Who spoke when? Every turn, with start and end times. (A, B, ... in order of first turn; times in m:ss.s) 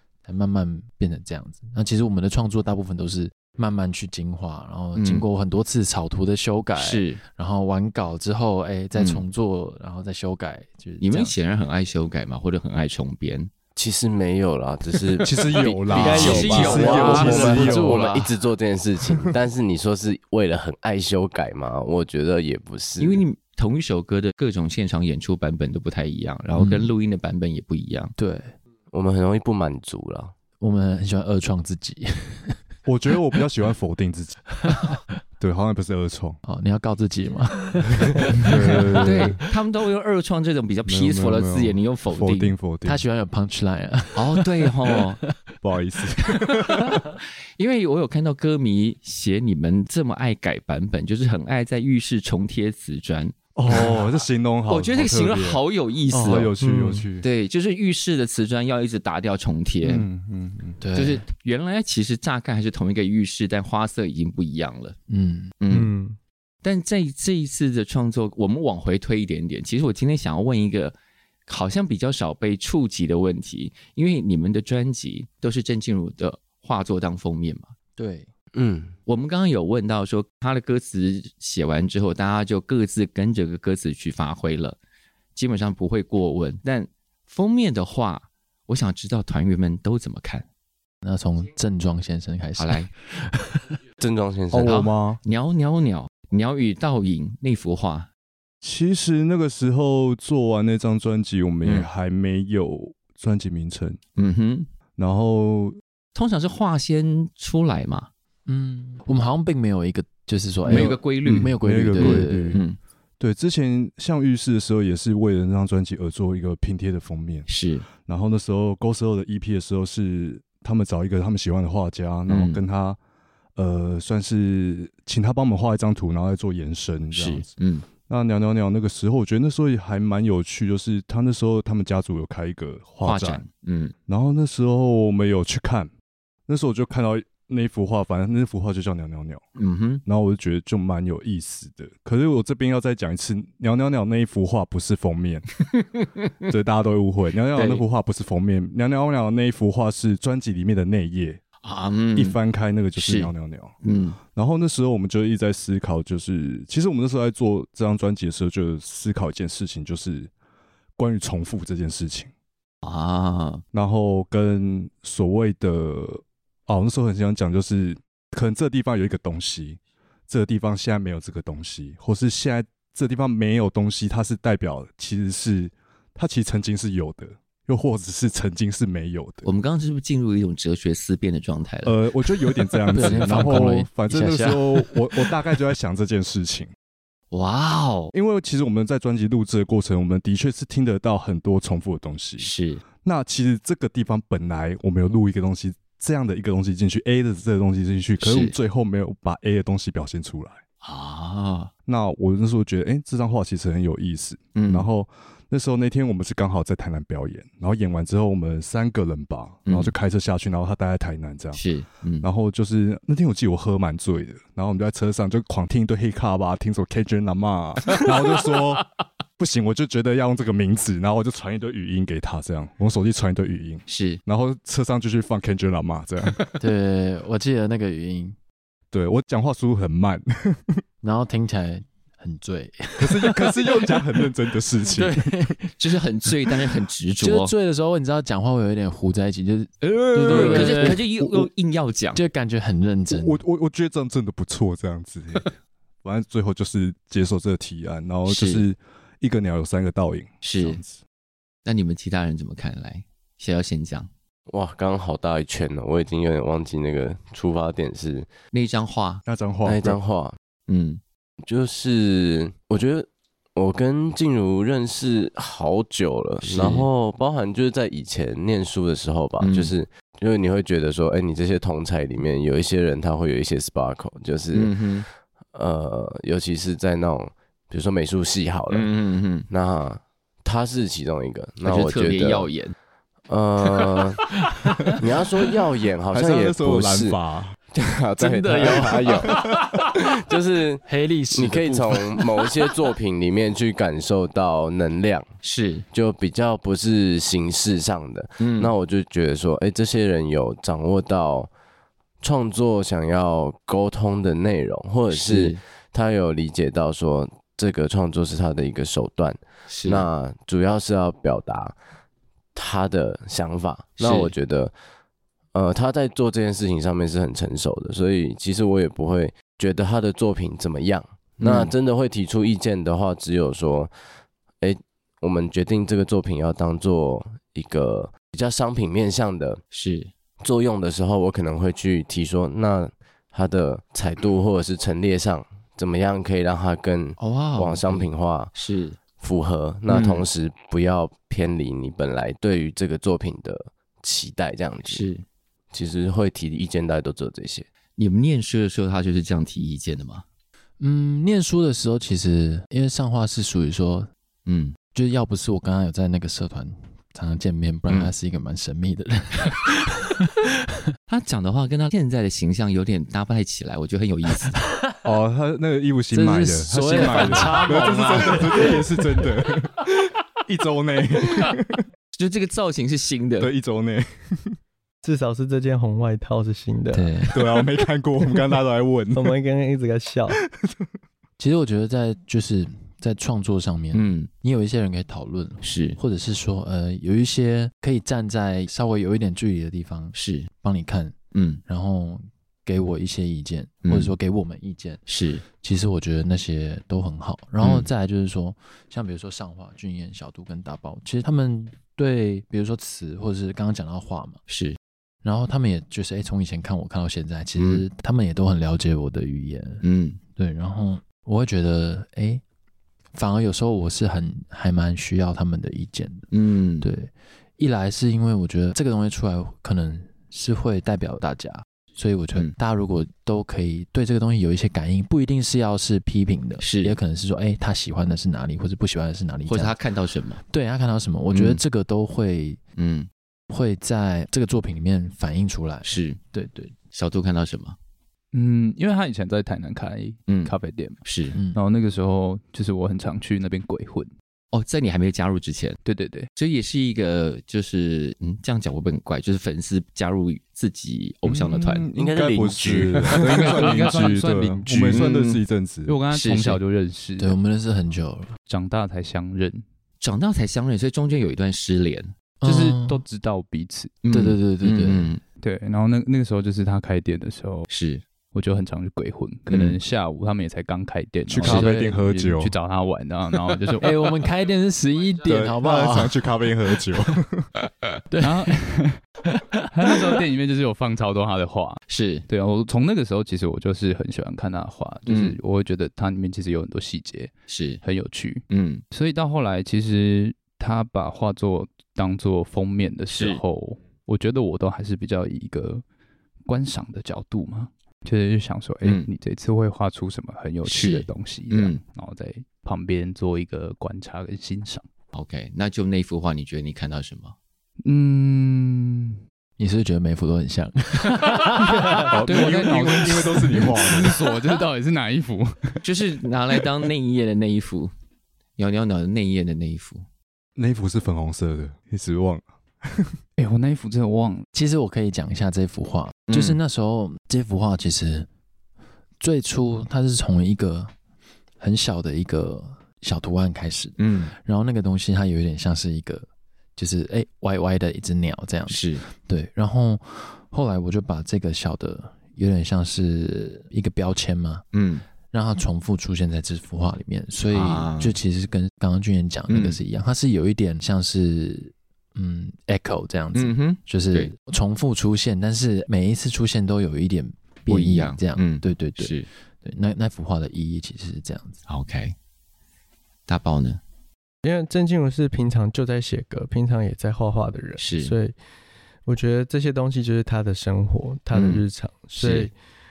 0:00.2-0:11.3 A
0:05.0-0:05.3 B
0:06.8-0:07.2 B
0:09.0-0:09.2 B
0:11.0-0:13.5 B
0:13.8-0:23.2 C
0:15.2-0:18.0 D
0:15.5-0:18.2 B
0:15.9-0:17.7 E
0:23.0-0:28.1 B
0:26.6-0:26.9 A
0:28.2-0:28.5 A
0:28.9-0:30.3 C
0:30.6-0:32.6 A
0:32.9-0:34.6 D
0:35.4-0:36.4 D
0:36.4-0:39.3 A
0:38.1-0:39.4 D
0:39.0-0:42.5 B
0:40.9-0:43.0 D
0:42.8-0:45.0 A
0:44.2-0:45.2 B
0:45.6-0:47.0 D
0:47.6-0:54.0 B
0:53.6-0:57.3 D
0:54.7-0:56.5 B
0:56.6-0:57.0 E
0:57.2-1:00.1 B
0:59.8-1:00.8 D
1:00.8-1:01.2 A
1:01.0-1:05.0 B
1:05.1-1:05.6 A
1:05.6-1:05.9 B
1:05.7-1:06.2 E
1:06.6-1:11.0 B
1:11.5-1:17.7 B
1:18.0-1:18.3 A
1:18.5-1:19.0 C
1:19.1-1:24.8 B
1:25.4-1:30.5 B
1:31.0-1:33.7 A
1:32.6-1:32.9 B
1:34.0-1:34.8 C
1:34.5-1:35.2 D
1:34.6-1:38.1 B
1:38.6-1:44.0 D
1:44.2-1:44.7 B
1:45.0-1:45.8 D
1:46.2-1:48.1 B
1:48.5-1:52.6 A
1:50.7-1:52.8 B
1:50.7-1:52.6 D
1:53.2-1:57.5 D
1:57.5-1:57.9 B
1:58.0-2:03.0 D
2:02.3-2:02.6 B
2:03.6-2:07.5 D
2:07.1-2:07.9 B
2:08.1-2:13.4 D
2:13.0-2:13.9 B
2:14.1-2:15.9 D
2:16.5-2:19.4 D
2:19.6-2:20.0 B
2:20.0-2:25.5 D
2:25.6-2:26.5 B
2:26.5-2:31.4 D
2:27.6-2:27.8 B
2:31.6-2:32.4 B
2:32.2-2:33.8 D
2:33.0-2:33.3 B
2:33.8-2:34.2 B
2:34.3-2:40.3 D
2:41.0-2:42.3 D
2:42.8-2:43.6 B
2:43.7-2:59.5 D
2:59.4-3:02.0 B
3:01.8-3:06.7 D
3:02.9-3:03.6 B
3:02.9-3:05.2 A
3:07.3-3:08.1 B
3:08.1-3:12.5 D
3:12.4-3:12.8 B
3:13.0-3:20.6 D
3:18.2-3:18.6 B
3:20.8-3:21.7 B
3:21.9-3:31.6 D
3:24.6-3:24.9 B
3:29.7-3:29.9 B
3:31.5-3:32.3 B
3:32.2-3:46.4 D
3:43.9-3:44.2 B
3:46.6-3:48.4 A
3:48.9-3:50.8 D
3:51.0-3:53.8 A
3:53.0-3:55.5 D
3:55.0-3:55.7 A
3:55.7-3:57.5 B
3:57.2-4:01.0 A
3:59.8-4:01.5 D
4:00.2-4:02.2 B
4:02.2-4:03.4 A
4:03.1-4:11.0 D
4:08.3-4:08.6 B
4:10.4-4:10.8 B
4:11.6-4:14.1 B
4:14.5-4:18.3 C
4:18.5-4:19.2 B
4:19.2-4:20.0 D
4:19.6-4:20.4 C
4:20.7-4:21.0 B
4:21.5-4:34.8 C
4:26.4-4:26.9 B
4:29.4-4:29.7 B
4:34.5-4:35.1 B
4:35.5-4:38.9 C
4:38.7-4:39.5 B
4:39.5-4:42.5 C
4:41.6-4:42.8 B
4:43.3-4:44.2 C
4:45.0-4:47.2 C
4:46.1-4:47.6 D
4:47.7-4:49.4 C
4:48.2-4:49.4 B
4:48.6-4:49.7 D
4:50.0-4:55.3 C
4:50.9-4:52.0 A
4:55.4-4:55.9 B
4:55.9-5:01.5 C
4:58.4-4:58.7 B
5:02.2-5:11.8 C
5:05.1-5:05.6 B
5:09.7-5:10.1 B
5:12.6-5:14.7 C
5:14.0-5:14.3 B
5:15.5-5:23.9 C
5:21.4-5:21.7 B
5:24.6-5:29.6 C
5:29.7-5:30.1 B
5:30.4-5:38.5 C
5:37.2-5:39.0 B
5:39.2-5:45.1 C
5:39.9-5:40.3 B
5:44.9-5:45.2 B
5:45.7-5:47.7 C
5:48.0-5:50.2 B
5:50.8-5:54.1 A
5:54.5-5:54.8 B
5:54.9-6:00.5 A
6:01.1-6:04.6 B
6:05.0-6:11.8 D
6:06.1-6:08.8 A
6:12.1-6:13.5 B
6:13.4-6:14.6 D
6:15.0-6:17.2 E
6:16.9-6:17.3 A
6:17.3-6:19.4 D
6:19.1-6:20.4 E
6:20.4-6:20.9 D
6:21.4-6:35.0 A
6:23.9-6:24.3 B
6:25.6-6:26.0 B
6:30.1-6:30.5 B
6:31.3-6:31.6 B
6:33.8-6:34.1 B
6:35.1-6:35.4 B
6:35.6-6:44.4 A
6:37.6-6:37.9 B
6:44.5-6:44.8 B
6:45.2-6:49.8 A
6:47.6-6:47.8 B
6:49.8-6:50.2 B
6:50.4-6:52.4 A
6:53.1-6:56.3 A
6:56.3-6:56.9 B
6:56.8-7:09.8 A
7:06.6-7:07.0 B
7:09.5-7:10.4 B
7:10.4-7:12.6 A
7:11.3-7:11.6 B
7:12.8-7:13.1 B
7:13.5-7:16.8 A
7:15.8-7:16.2 B
7:16.9-7:17.8 B
7:18.3-7:21.0 F
7:20.3-7:21.4 B
7:21.4-7:21.6 A
7:21.5-7:24.1 F
7:24.5-7:25.8 B
7:25.8-7:26.3 F
7:26.4-7:31.9 B
7:31.2-7:35.9 D
7:32.0-7:33.6 C
7:33.1-7:37.4 F
7:36.1-7:36.6 B
7:37.2-7:38.4 A
7:38.5-7:39.6 F
7:40.0-7:42.1 B
7:42.4-7:43.0 A
7:42.4-7:44.0 F
7:44.0-7:45.2 B
7:44.1-7:45.1 A
7:45.4-7:47.7 F
7:47.7-7:48.0 B
7:48.3-7:53.9 F
7:49.5-7:49.8 B
7:51.3-7:52.6 D
7:51.4-7:51.7 B
7:53.8-7:56.2 A
7:55.3-7:57.5 D
7:58.1-7:58.6 A
7:58.2-7:59.0 F
7:59.7-8:15.8 F
8:01.9-8:02.3 B
8:05.1-8:05.4 B
8:07.5-8:07.8 B
8:08.5-8:08.8 B
8:13.1-8:13.4 B
8:16.5-8:24.8 F
8:18.8-8:19.1 B
8:20.6-8:21.8 B
8:25.1-8:27.4 B
8:27.8-8:29.2 F
8:29.6-8:32.1 A
8:31.3-8:35.8 F
8:31.9-8:34.2 D
8:35.8-8:37.9 B
8:38.6-8:40.0 B
8:40.6-8:43.2 D
8:43.4-8:44.4 F
8:44.5-8:48.3 A
8:46.3-8:46.6 B
8:49.2-8:50.9 A
8:51.6-9:04.6 A
8:54.0-8:54.3 B
8:58.7-8:59.0 B
9:04.7-9:05.0 B
9:05.3-9:21.6 A
9:07.5-9:08.2 B
9:09.5-9:09.8 B
9:13.3-9:14.3 B
9:17.7-9:19.3 B
9:21.7-9:22.2 B
9:23.3-9:23.8 B
9:24.4-9:28.4 E
9:27.8-9:28.2 B
9:29.1-9:32.5 E
9:31.3-9:31.6 B
9:32.1-9:32.5 B